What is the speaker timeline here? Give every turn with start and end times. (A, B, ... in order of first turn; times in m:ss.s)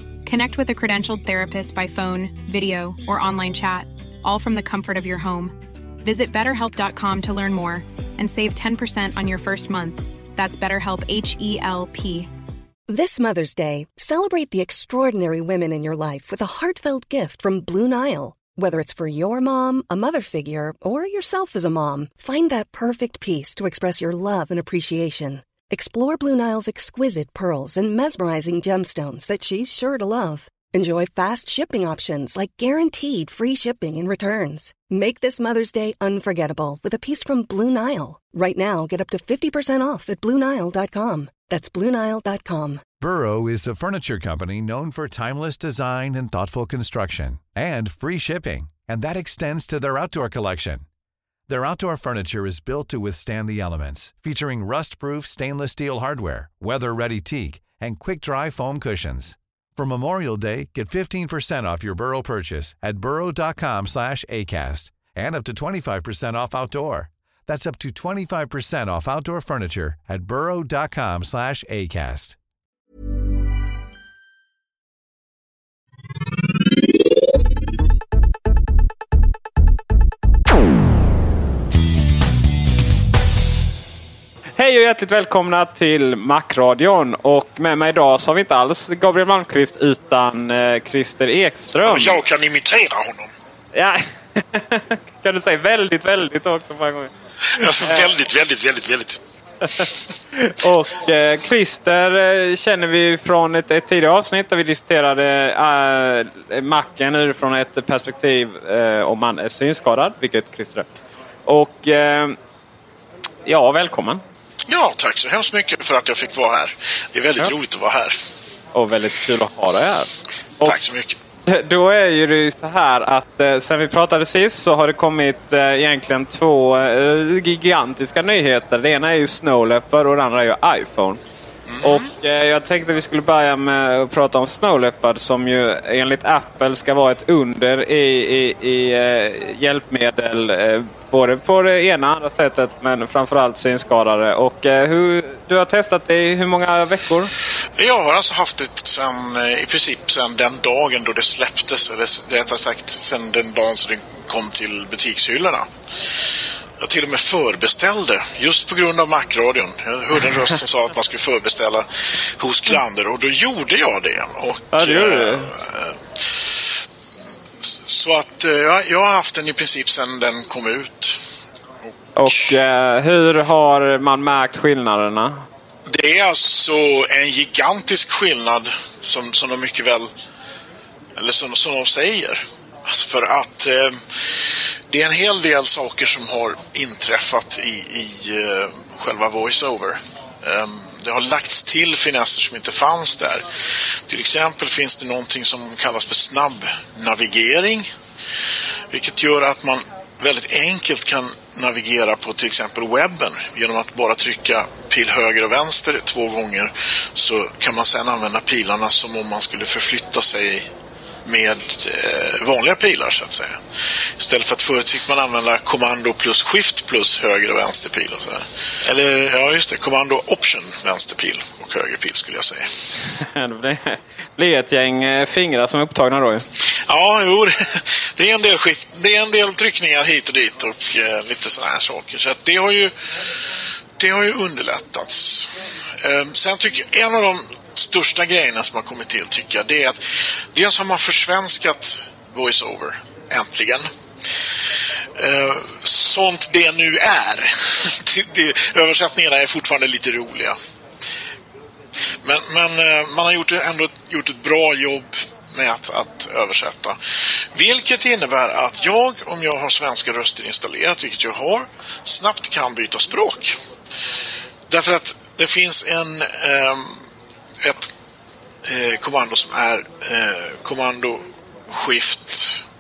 0:00.2-0:12.3 A
0:12.9-0:42.8 B
0:43.0-0:50.9 C
0:51.5-1:12.4 C
1:24.6-1:32.2 D
1:31.8-1:33.3 E
1:33.7-1:38.1 D
1:37.5-1:39.2 E
1:39.6-1:50.9 D
1:51.5-1:52.4 D
1:53.5-1:54.2 D
1:54.7-1:58.2 E
1:58.7-2:00.8 D
2:00.6-2:01.2 E
2:01.5-2:11.2 D
2:11.7-2:12.1 E
2:11.8-2:27.3 D
2:27.8-2:35.7 E
2:36.8-2:46.8 E
2:44.7-2:45.5 D
2:47.6-2:51.2 E
2:51.8-2:52.6 E
2:52.2-2:55.4 D
2:55.9-3:00.1 E
3:01.2-3:13.5 E
3:14.1-3:17.9 E
3:18.9-3:30.7 E
3:31.2-3:33.6 E
3:34.2-3:42.7 E
3:43.3-3:46.4 D
3:46.9-3:53.3 E
3:54.0-4:03.9 E
4:05.2-4:10.6 E
4:12.2-4:17.0 E
4:17.6-4:23.6 E
4:24.7-4:27.0 E
4:27.6-4:27.9 E
4:28.7-4:32.6 E